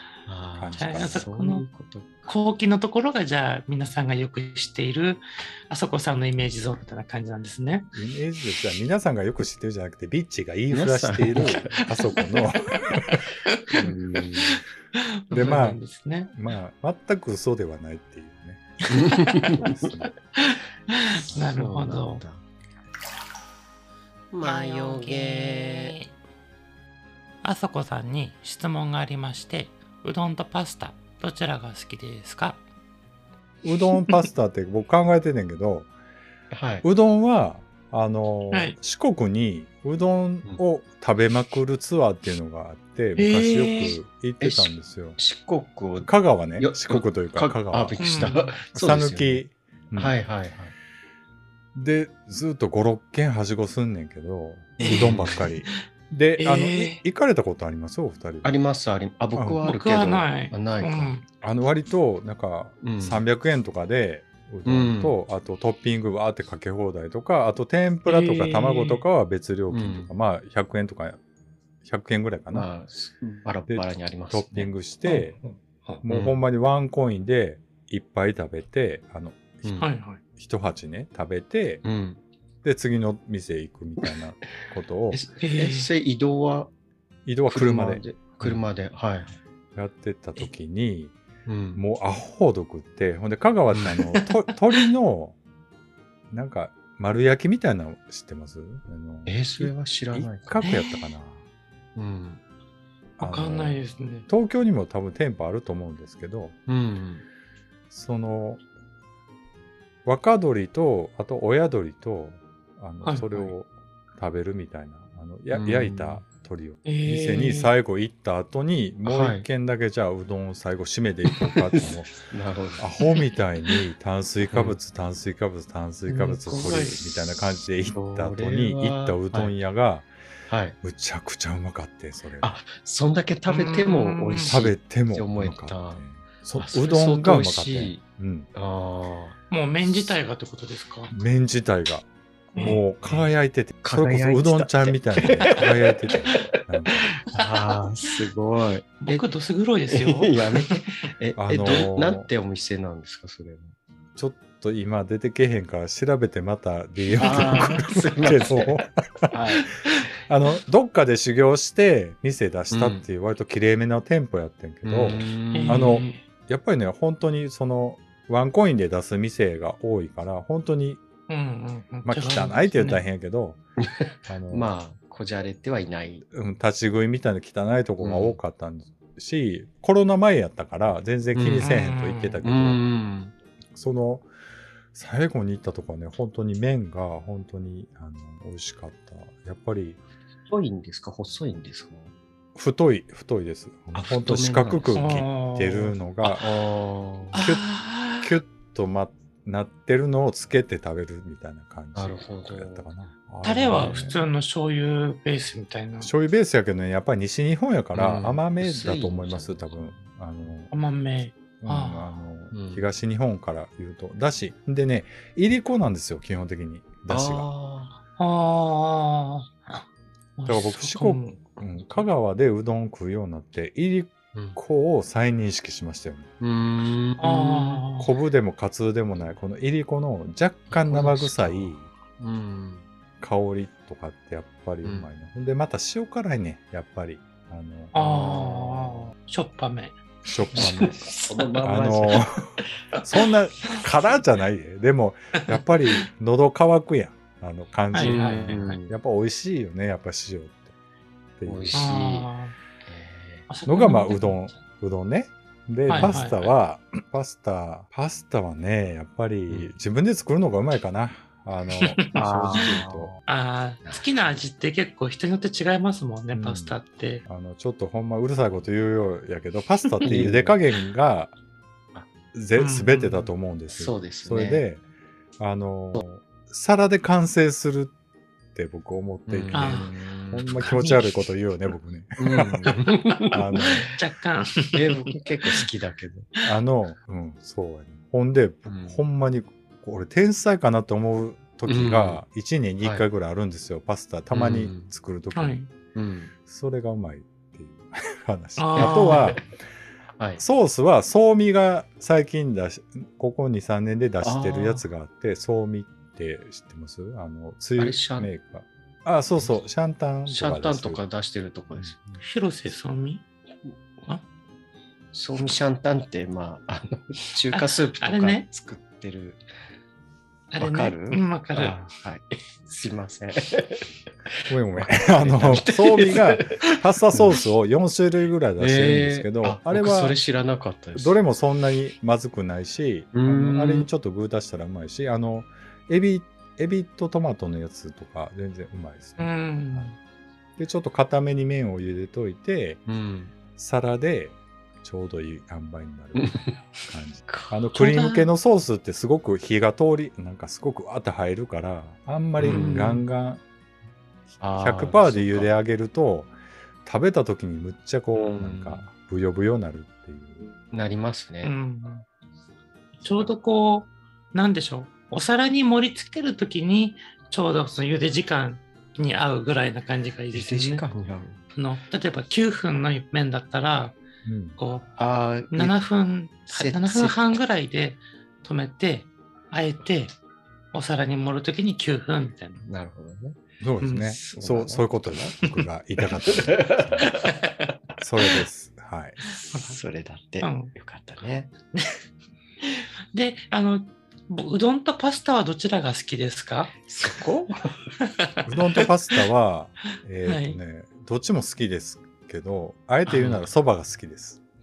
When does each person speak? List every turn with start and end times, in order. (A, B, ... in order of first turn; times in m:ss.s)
0:00.2-0:02.3 A
0:00.6-0:01.2 B
0:00.8-0:01.6 C
0:02.2-0:07.9 C
0:07.9-0:13.2 B
0:10.7-0:11.8 A
0:13.4-0:13.9 C
0:13.7-0:14.6 A
0:14.5-0:16.3 C
0:15.3-0:20.2 B
0:18.9-0:19.9 A
0:20.4-0:22.2 C
0:21.1-0:22.4 A
0:24.3-0:26.0 A
0:24.4-0:26.1 C
0:27.4-0:32.6 C
0:33.6-0:35.9 B
0:36.5-0:36.8 A
0:36.8-0:45.2 B
0:38.5-0:38.8 C
0:43.2-0:44.0 C
0:44.4-0:49.4 A
0:46.0-0:50.1 B
0:48.0-0:48.5 C
0:50.0-0:50.7 A
0:51.7-0:58.5 B
0:54.8-0:55.4 A
0:54.8-0:55.1 C
0:56.4-0:57.0 C
0:58.4-1:01.1 A
0:59.6-1:01.2 C
1:01.4-1:11.2 B
1:02.8-1:03.2 A
1:04.6-1:05.1 A
1:08.1-1:09.0 C
1:09.7-1:10.1 A
1:11.8-1:12.7 B
1:12.5-1:14.7 A
1:13.7-1:15.4 B
1:16.0-1:19.8 B
1:16.1-1:16.4 A
1:19.6-1:19.9 A
1:19.8-1:20.2 C
1:20.4-1:21.8 B
1:21.8-1:22.2 A
1:22.6-1:25.2 B
1:25.1-1:26.7 A
1:25.4-1:25.9 C
1:27.2-1:28.6 B
1:27.5-1:29.4 A
1:29.7-1:31.2 B
1:31.4-1:31.8 A
1:31.7-1:35.4 B
1:36.3-1:41.4 B
1:39.2-1:40.6 A
1:40.6-1:41.0 C
1:42.0-1:42.4 A
1:43.2-1:44.3 C
1:43.2-1:46.6 B
1:46.7-1:47.2 A
1:47.9-1:48.6 B
1:50.0-2:02.1 B
1:53.0-1:53.5 C
1:55.5-1:56.2 A
1:56.8-1:57.7 C
1:59.0-1:59.4 A
2:02.3-2:02.9 A
2:02.8-2:10.1 B
2:04.5-2:04.8 A
2:06.1-2:07.0 A
2:06.6-2:07.0 C
2:07.8-2:09.5 A
2:10.5-2:10.8 A
2:10.8-2:12.5 B
2:12.4-2:16.0 A
2:13.5-2:14.5 C
2:14.4-2:18.5 B
2:16.5-2:18.0 A
2:18.5-2:19.4 A
2:19.5-2:21.1 C
2:19.8-2:20.2 B
2:21.1-2:27.2 B
2:22.6-2:23.3 A
2:23.8-2:29.3 A
2:27.3-2:27.8 C
2:29.0-2:30.8 C
2:29.9-2:33.8 A
2:31.4-2:32.3 B
2:34.2-2:39.3 B
2:37.2-2:39.7 A
2:40.2-2:51.0 B
2:42.7-2:43.1 A
2:44.8-2:46.2 A
2:45.5-2:46.2 C
2:51.3-2:53.0 C
2:52.0-2:53.6 B
2:53.8-2:56.2 A
2:54.3-2:54.7 B
2:56.3-3:02.8 B
2:58.0-2:58.4 A
3:01.3-3:01.7 A
3:01.5-3:02.4 C
3:02.4-3:03.3 A
3:03.7-3:04.3 B
3:04.9-3:10.0 B
3:10.5-3:12.1 A
3:12.5-3:16.4 B
3:13.9-3:15.0 A
3:15.0-3:16.4 C
3:16.4-3:17.4 A
3:17.3-3:18.3 C
3:17.3-3:24.2 B
3:21.9-3:22.9 A
3:23.4-3:26.1 C
3:23.7-3:24.1 A
3:26.0-3:30.7 B
3:27.9-3:30.0 A
3:30.7-3:32.1 C
3:31.6-3:37.4 B
3:32.5-3:32.8 A
3:37.1-3:38.0 A
3:38.2-3:39.8 C
3:40.4-3:41.4 C
3:40.5-3:46.3 B
3:44.3-3:44.6 A
3:46.4-3:47.8 A
3:47.2-3:48.1 C
3:48.0-3:51.9 B
3:50.7-3:52.8 A
3:53.2-3:57.9 B
3:54.8-3:55.1 A
3:57.9-4:00.0 C
3:57.9-3:59.1 A
4:00.2-4:10.7 B
4:00.5-4:03.0 A
4:07.9-4:08.8 C
4:08.0-4:08.9 A
4:11.4-4:11.9 B
4:11.4-4:12.3 A
4:11.7-4:12.5 C
4:12.8-4:13.5 A
4:13.5-4:14.5 C
4:13.6-4:23.1 B
4:15.9-4:16.5 C
4:15.9-4:16.3 A
4:21.8-4:22.1 C
4:22.1-4:23.2 A
4:23.3-4:27.2 C
4:23.8-4:24.4 A
4:26.3-4:31.3 B
4:30.0-4:30.6 A
4:32.3-4:34.8 B
4:32.6-4:33.3 C
4:33.7-4:34.6 A
4:35.4-4:37.9 B
4:38.5-4:42.8 B
4:39.2-4:40.7 A
4:39.5-4:39.9 C
4:40.6-4:41.0 C
4:42.2-4:43.9 A
4:43.3-4:43.8 B
4:43.6-4:45.6 C
4:44.7-4:46.3 A
4:46.4-4:55.6 B
4:48.6-4:49.0 A
4:51.7-4:52.2 A
4:54.3-4:54.9 A
4:55.3-4:55.7 C
4:55.9-4:56.3 A
4:56.4-4:59.4 B
4:58.6-4:59.4 C
4:58.8-4:59.4 A
5:00.4-5:11.0 B
5:04.2-5:04.8 A
5:07.8-5:08.3 A
5:10.2-5:12.2 A
5:12.2-5:13.2 C
5:15.1-5:19.4 A
5:17.5-5:18.4 C
5:20.5-5:21.8 C
5:20.6-5:27.4 A
5:24.5-5:30.2 B
5:28.6-5:31.2 A
5:30.9-5:39.9 B
5:33.1-5:33.9 A
5:39.2-5:40.0 C
5:40.6-5:42.8 B
5:42.9-5:43.3 A
5:43.6-5:53.4 B
5:46.2-5:46.6 A
5:47.8-5:48.3 C
5:52.4-5:52.8 A
5:52.4-5:53.0 C
5:54.4-5:55.5 A
5:54.6-5:56.3 B
5:56.8-6:00.5 B
5:58.1-5:58.8 A
6:00.7-6:01.5 A
6:01.4-6:02.0 C
6:03.0-6:10.8 C
6:10.3-6:11.4 A
6:11.5-6:14.0 C
6:14.2-6:14.6 B
6:14.6-6:14.9 C
6:15.0-6:15.8 A
6:15.5-6:20.1 C
6:16.5-6:17.2 A
6:20.7-6:22.7 C
6:22.7-6:25.3 A
6:23.6-6:27.1 B
6:23.8-6:24.1 C
6:26.3-6:27.3 A
6:28.0-6:29.2 B
6:29.2-6:31.5 A
6:30.4-6:30.7 C
6:31.7-6:32.0 C
6:32.6-6:36.8 C
6:36.9-6:37.7 A
6:38.0-6:38.9 C
6:38.4-6:44.4 B
6:40.2-6:40.6 C
6:43.0-6:43.4 A